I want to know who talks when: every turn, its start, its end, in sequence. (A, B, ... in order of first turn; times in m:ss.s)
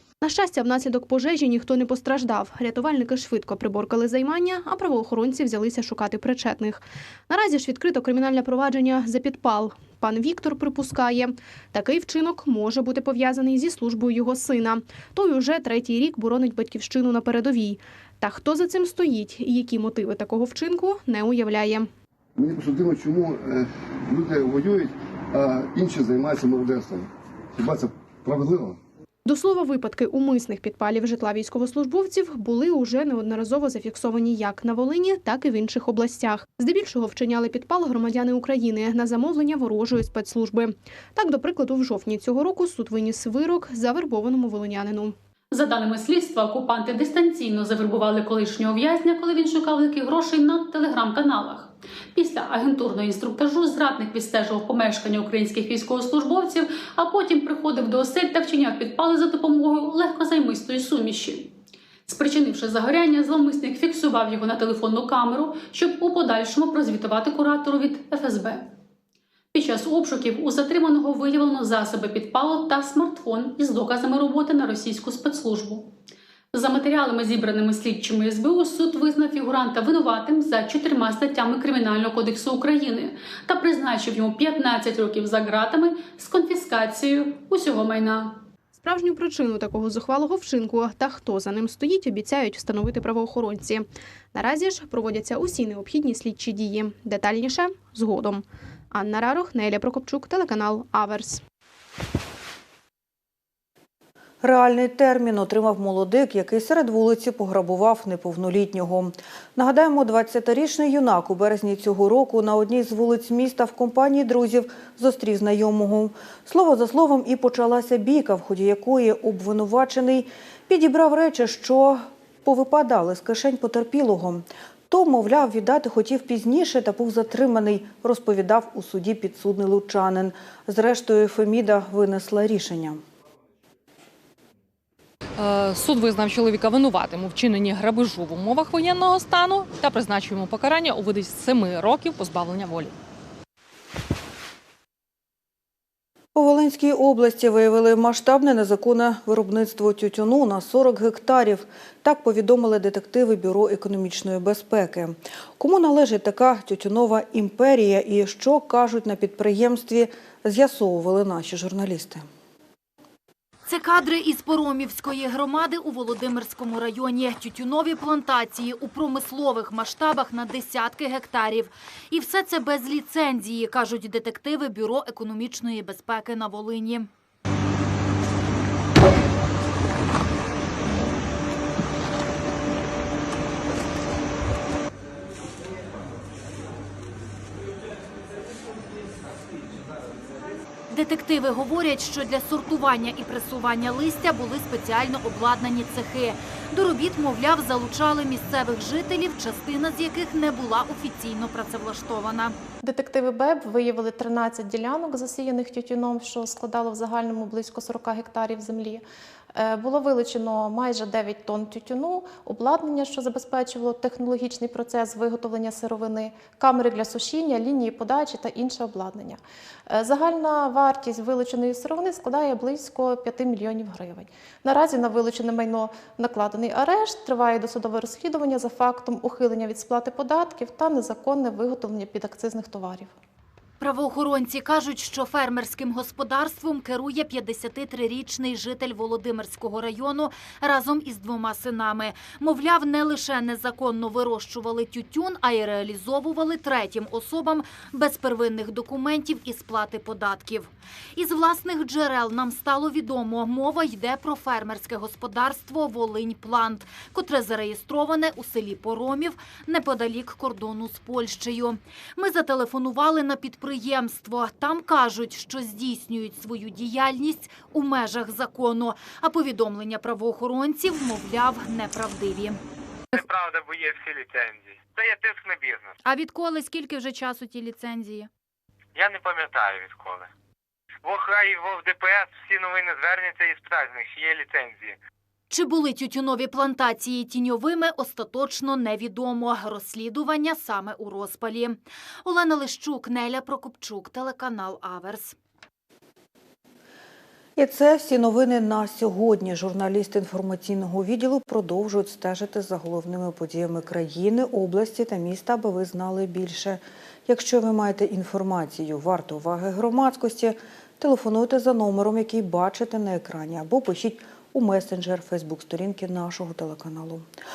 0:00.2-0:21.9 A
0:22.4-0:28.8 B
0:29.3-0:45.2 A
0:45.5-1:01.5 C
1:02.1-1:08.7 C
1:09.5-1:15.9 C
1:16.5-1:28.4 C
1:28.8-1:41.4 A
1:44.4-2:13.0 D
2:15.4-2:22.9 E
2:26.4-2:42.2 D
2:43.7-2:57.1 F
3:10.9-3:22.6 F
3:22.8-3:53.1 G
3:53.8-4:32.6 F
4:33.2-4:35.9 H
4:36.0-4:38.3 F
4:39.0-4:40.3 H
4:41.0-4:45.0 H
4:45.5-4:55.4 F
4:57.6-5:17.3 D